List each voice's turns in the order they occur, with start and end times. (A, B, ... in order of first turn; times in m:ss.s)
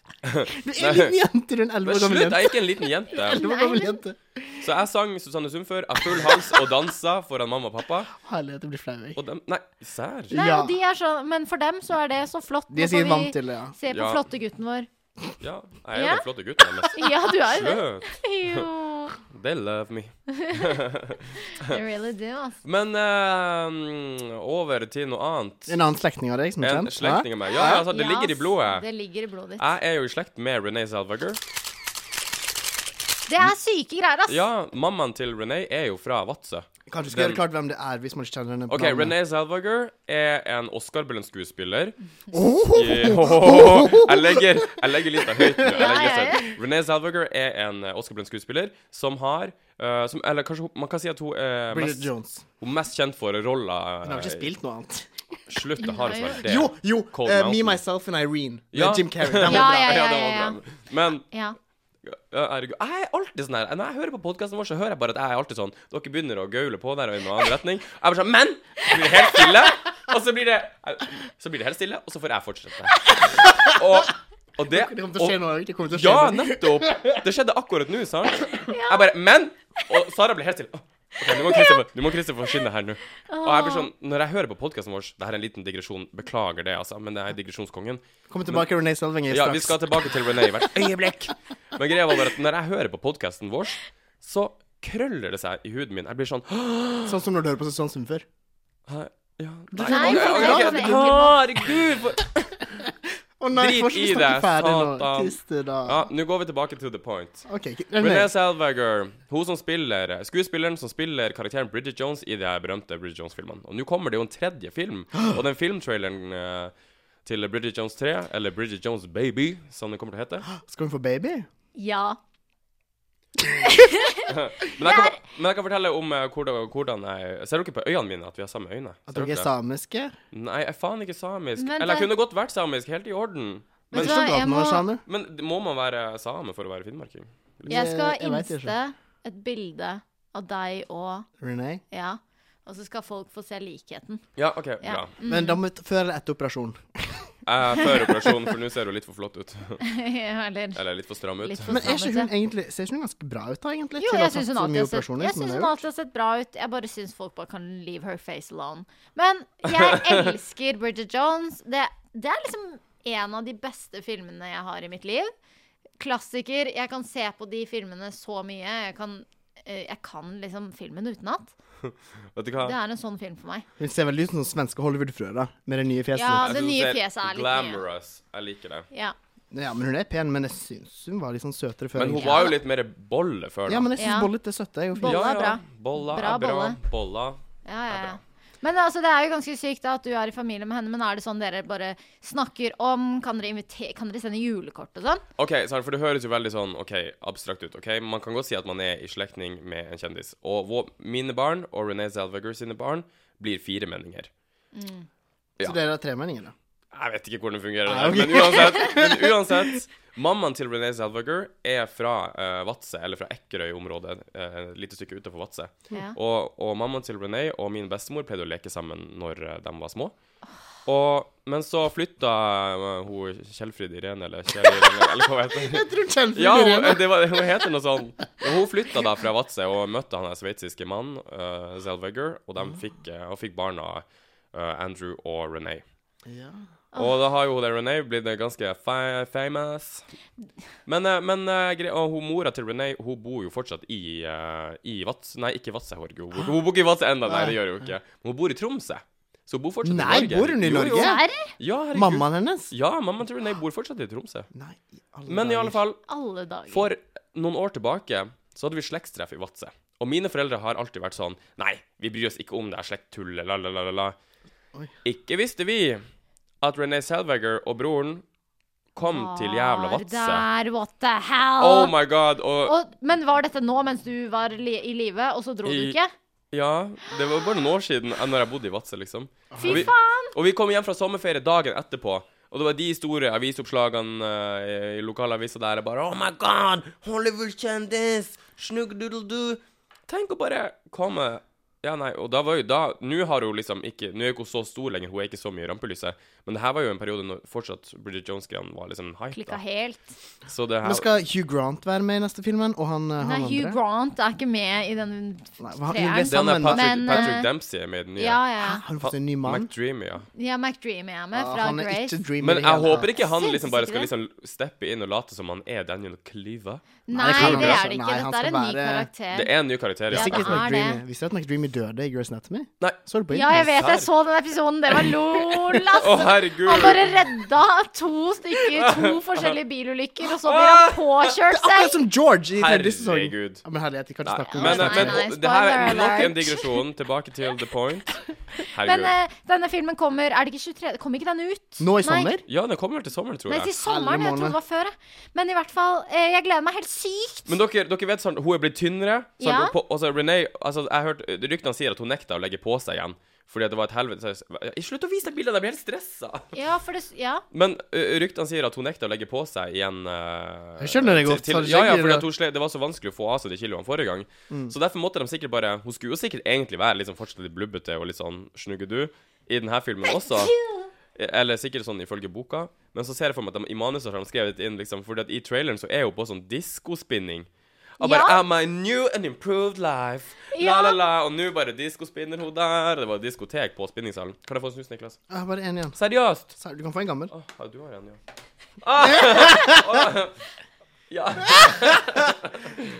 0:00.2-0:01.1 A
0:00.5-0:02.6 B
0:01.8-0:03.4 A
0:03.1-0:04.4 B
0:03.2-0:04.0 C
0:04.6-0:08.1 A
0:08.2-0:09.2 B
0:09.2-0:10.3 A
0:10.3-0:10.8 B
0:10.3-0:14.9 C
0:12.7-0:13.8 B
0:13.9-0:14.2 A
0:15.4-0:18.7 A
0:15.9-0:16.2 C
0:16.9-0:19.2 C
0:19.2-0:21.8 A
0:20.3-0:20.8 C
0:21.6-0:22.6 C
0:22.6-0:25.8 A
0:25.7-0:27.8 B
0:26.6-0:28.8 A
0:27.5-0:29.6 C
0:29.6-0:31.4 A
0:33.3-0:34.4 C
0:34.3-0:37.4 A
0:36.9-0:39.1 B
0:38.7-0:42.0 A
0:42.3-0:45.9 B
0:42.7-0:54.5 A
0:45.7-0:46.5 C
0:51.7-0:52.4 B
0:54.0-0:55.4 B
0:55.5-0:57.8 A
0:55.8-0:56.4 C
0:56.4-1:00.0 B
0:58.7-1:01.2 A
0:59.4-1:00.6 C
1:01.3-1:01.6 C
1:02.0-1:15.4 A
1:13.3-1:14.0 B
1:14.7-1:17.2 B
1:15.9-1:28.7 A
1:18.7-1:19.1 C
1:21.3-1:21.8 C
1:23.3-1:23.9 C
1:28.3-1:30.1 B
1:29.3-1:37.2 A
1:37.1-1:38.2 B
1:38.9-1:42.4 A
1:39.7-1:41.3 B
1:39.8-1:41.4 C
1:42.7-1:46.0 B
1:43.5-1:47.5 A
1:47.5-1:48.3 B
1:48.0-1:56.7 A
1:57.2-2:00.5 A
2:00.5-2:01.5 B
2:01.7-2:02.2 C
2:03.6-2:05.2 C
2:04.3-2:09.5 A
2:09.1-2:10.1 B
2:10.3-2:14.2 A
2:11.6-2:12.1 C
2:13.9-2:15.0 B
2:13.9-2:14.8 C
2:15.0-2:17.6 A
2:17.6-2:18.7 B
2:17.7-2:21.3 C
2:21.4-2:21.8 B
2:21.9-2:24.3 C
2:24.4-2:25.1 A
2:24.8-2:25.6 C
2:25.3-2:28.4 B
2:27.5-2:29.8 A
2:29.8-2:30.8 C
2:30.7-2:31.8 A
2:31.4-2:32.3 C
2:31.7-2:35.8 B
2:34.0-2:45.3 C
2:39.7-2:40.3 A
2:46.0-2:51.5 C
2:51.8-2:52.7 A
2:52.6-2:53.6 C
2:53.8-2:56.6 B
2:56.1-2:57.8 C
2:56.4-2:58.9 A
2:59.5-3:02.5 B
3:02.0-3:03.9 A
3:02.2-3:02.6 C
3:03.7-3:05.4 B
3:04.0-3:04.3 C
3:05.0-3:06.8 C
3:05.0-3:08.2 A
3:07.6-3:15.2 C
3:15.4-3:24.3 A
3:24.7-3:25.1 C
3:25.6-3:26.5 B
3:26.9-3:40.1 A
3:27.8-3:29.7 B
3:40.8-3:55.8 A
3:44.7-3:47.5 B
3:56.3-3:56.6 B
3:57.0-4:00.0 A
4:00.8-4:14.5 A
4:07.3-4:07.6 B
4:09.8-4:11.2 B
4:10.9-4:11.5 C
4:11.9-4:12.7 B
4:14.5-4:15.8 B
4:15.3-4:16.0 A
4:16.1-4:16.9 C
4:16.7-4:24.2 A
4:25.0-4:26.0 A
4:26.6-4:28.2 A
4:29.0-4:30.4 A
4:29.0-4:31.9 C
4:31.6-4:32.7 A
4:32.6-4:36.1 C
4:35.6-4:36.0 A
4:36.5-4:59.6 A
4:39.5-4:39.9 B
4:39.6-4:40.3 C
4:59.3-5:00.2 C
5:00.5-5:01.1 A
5:00.8-5:03.8 B
5:03.2-5:07.5 C
5:05.6-5:07.4 B
5:06.3-5:08.4 A
5:08.2-5:08.8 C
5:08.6-5:09.7 B
5:09.0-5:10.2 A
5:10.4-5:12.2 C
5:11.3-5:13.1 B
5:12.4-5:17.8 A
5:13.2-5:14.1 C
5:17.1-5:19.5 C
5:17.1-5:19.1 B
5:19.3-5:20.6 A
5:20.1-5:21.0 C
5:20.1-5:23.9 B
5:23.3-5:32.0 C
5:23.6-5:24.1 A
5:25.9-5:27.1 A
5:28.7-5:29.5 A
5:30.4-5:31.4 A
5:31.5-5:35.2 B
5:32.6-5:33.6 A
5:34.2-5:39.1 A
5:34.5-5:36.7 C
5:38.8-5:42.4 C
5:41.8-5:42.4 B
5:42.5-5:43.7 A
5:43.5-5:47.5 C
5:43.8-5:44.6 B
5:47.5-5:56.5 A
5:49.4-5:49.7 C
5:56.5-5:57.4 C
5:57.5-6:10.5 A
6:00.8-6:02.3 B
6:10.1-6:10.9 C
6:11.1-6:17.5 A
6:18.0-6:25.2 A
6:18.0-6:18.4 C
6:20.5-6:21.0 C
6:25.3-6:26.0 B
6:26.0-6:26.5 A
6:26.5-6:27.3 B
6:27.3-6:28.2 A
6:28.8-6:30.4 A
6:29.0-6:30.1 B
6:31.1-6:32.8 A
6:31.5-6:31.9 B